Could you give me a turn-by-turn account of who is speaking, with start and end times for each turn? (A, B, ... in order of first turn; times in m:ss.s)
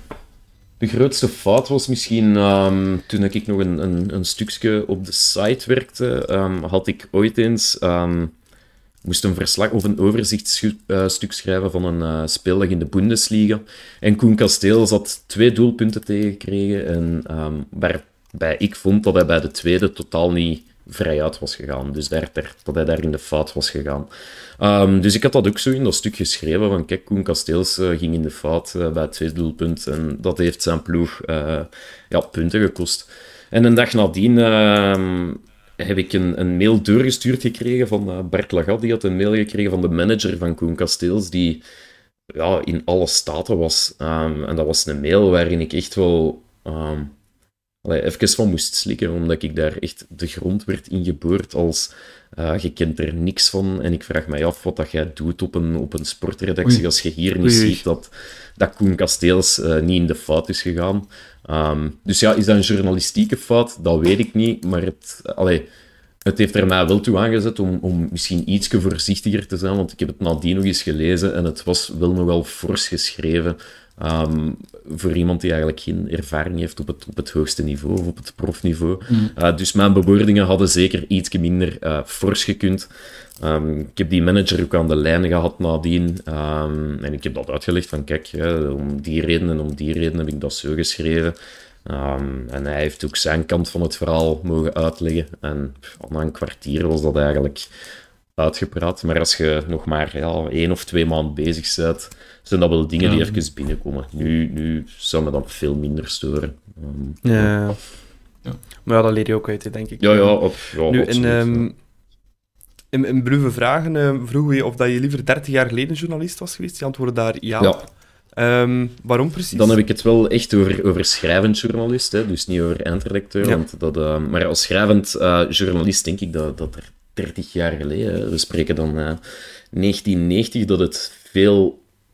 0:00.8-0:08.3 A
0:09.0-0:24.1 A
0:24.6-0:41.6 A
0:42.3-0:47.1 A
0:47.8-1:05.7 A
0:57.4-0:57.8 B
1:06.2-1:22.9 A
1:23.4-1:37.7 A
1:38.4-1:47.5 A
1:43.0-1:43.3 B
1:47.2-1:47.8 B
1:48.8-1:51.8 B
1:50.0-1:51.7 A
1:52.9-1:57.8 B
1:58.4-1:59.8 B
1:59.5-2:09.2 A
2:09.7-2:11.8 A